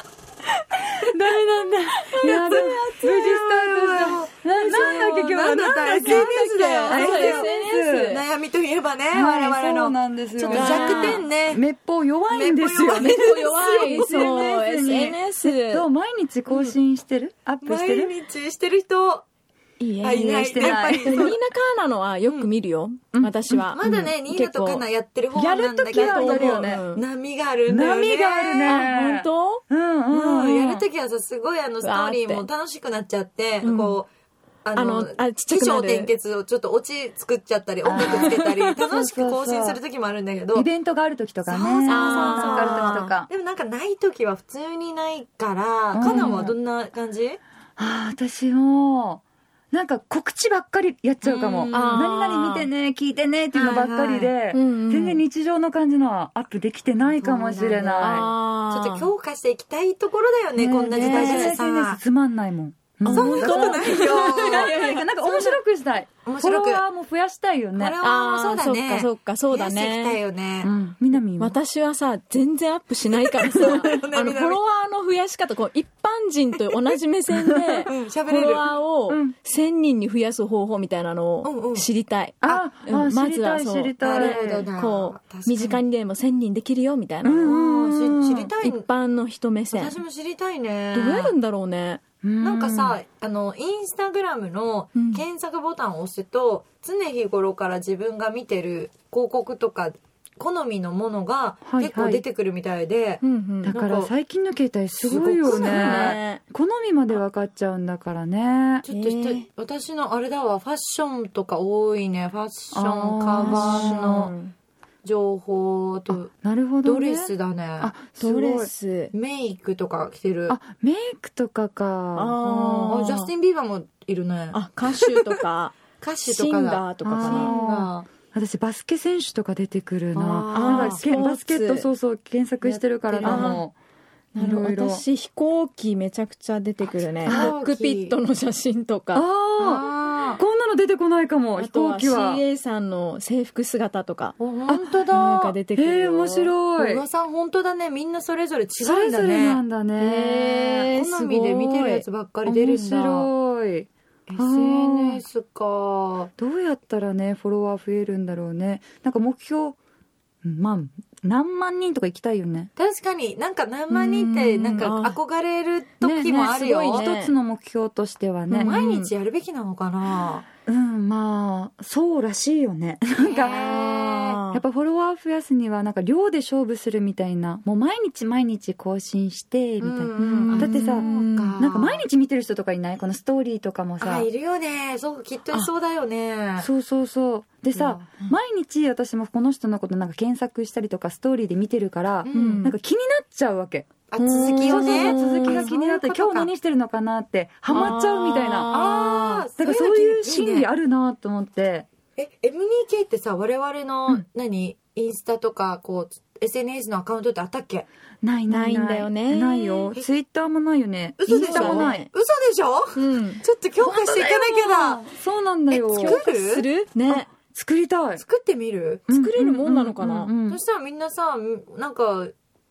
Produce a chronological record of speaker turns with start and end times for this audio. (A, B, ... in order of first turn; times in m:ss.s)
0:00.8-0:06.3 A
0:02.0-0:03.3 B
0:03.0-0:11.6 C
0:05.9-0:08.2 B
0:06.8-0:08.1 A
0:09.1-0:18.1 A
0:10.5-0:11.3 B
0:12.3-0:14.5 C
0:12.9-0:15.9 B
0:16.5-0:16.8 C
0:17.6-0:19.2 C
0:19.8-0:27.0 B
0:20.0-0:21.4 C
0:20.4-0:21.4 A
0:23.1-0:24.1 A
0:23.7-0:28.9 C
0:25.6-0:26.8 A
0:27.7-0:30.8 A
0:28.7-0:29.6 B
0:30.1-0:34.1 C
0:31.8-0:32.5 B
0:33.6-0:34.0 B
0:34.6-0:40.7 C
0:34.8-0:36.1 B
0:37.8-0:39.8 A
0:37.9-0:38.8 B
0:40.6-0:43.3 A
0:41.4-0:47.4 C
0:41.9-0:43.2 B
0:45.9-0:46.6 A
0:46.0-0:46.4 B
0:47.8-0:58.3 A
0:51.2-0:52.1 C
0:51.7-0:52.7 B
0:53.5-0:54.3 C
0:54.5-0:55.2 B
0:57.2-1:02.0 C
0:57.8-0:59.1 B
1:00.6-1:08.0 A
1:00.9-1:01.6 B
1:03.0-1:05.6 B
1:03.1-1:04.7 C
1:06.2-1:06.8 C
1:07.8-1:10.7 C
1:08.0-1:10.2 B
1:10.6-1:11.6 A
1:11.4-1:27.6 B
1:13.5-1:14.6 C
1:17.4-1:17.7 A
1:17.8-1:18.7 C
1:19.1-1:19.4 A
1:21.4-1:21.9 C
1:22.4-1:24.7 A
1:24.0-1:25.8 C
1:27.2-1:28.5 A
1:27.5-1:28.9 C
1:28.6-1:30.0 B
1:29.7-1:31.4 C
1:30.9-1:32.0 B
1:32.2-1:33.0 A
1:32.4-1:44.1 C
1:35.0-1:35.2 B
1:41.7-1:42.2 A
1:43.2-1:43.7 B
1:43.6-1:48.8 A
1:44.9-1:46.2 C
1:45.4-1:46.4 B
1:48.8-1:54.3 C
1:48.9-1:49.5 B
1:52.7-1:54.3 A
1:53.4-1:54.5 B
1:55.0-1:56.3 C
1:56.3-1:58.7 A
1:56.8-1:57.9 C
1:58.2-1:59.1 B
1:59.1-2:00.6 C
2:00.5-2:03.1 A
2:02.2-2:03.3 B
2:02.8-2:05.3 C
2:04.5-2:07.5 B
2:06.0-2:08.1 C
2:07.0-2:13.8 A
2:10.1-2:11.0 C
2:10.5-2:11.9 B
2:12.6-2:13.6 C
2:13.2-2:13.7 B
2:14.4-2:19.3 B
2:14.4-2:15.0 A
2:17.2-2:18.2 C
2:17.2-2:17.6 A
2:19.1-2:19.9 A
2:19.6-2:20.4 C
2:20.4-2:22.4 A
2:21.6-2:24.4 B
2:24.4-2:25.6 C
2:25.1-2:26.5 B
2:25.8-2:27.0 A
2:26.8-2:29.6 C
2:28.8-2:30.9 A
2:30.0-2:32.0 B
2:30.9-2:33.3 C
2:32.5-2:35.2 A
2:34.3-2:36.3 C
2:36.4-2:39.8 A
2:40.4-2:42.7 A
2:42.8-2:47.1 C
2:43.9-2:45.2 B
2:46.0-2:48.8 A
2:46.3-2:47.3 B
2:48.5-2:49.1 B
2:48.6-2:50.4 C
2:50.7-3:04.3 A
2:53.2-2:54.4 C
2:53.6-2:54.6 B
2:59.8-3:02.0 C
3:00.2-3:01.6 B
3:04.0-3:06.7 C
3:06.6-3:13.9 A
3:07.8-3:08.3 C
3:12.2-3:12.6 C
3:12.3-3:12.7 B
3:14.1-3:16.5 C
3:14.2-3:15.7 B
3:14.5-3:18.9 A
3:17.7-3:19.5 B
3:17.7-3:18.0 C
3:18.7-3:20.7 C
3:19.6-3:21.9 A
3:22.2-3:27.9 C
3:28.2-3:32.0 A
3:28.5-3:29.9 B
3:31.2-3:35.0 C
3:31.3-3:32.1 B
3:33.0-3:33.4 B
3:33.8-3:36.2 A
3:35.7-3:36.7 C
3:36.0-3:37.3 B
3:37.1-3:38.2 A
3:38.2-3:39.0 C
3:39.1-3:40.6 A
3:39.1-3:40.3 B
3:40.5-3:42.3 C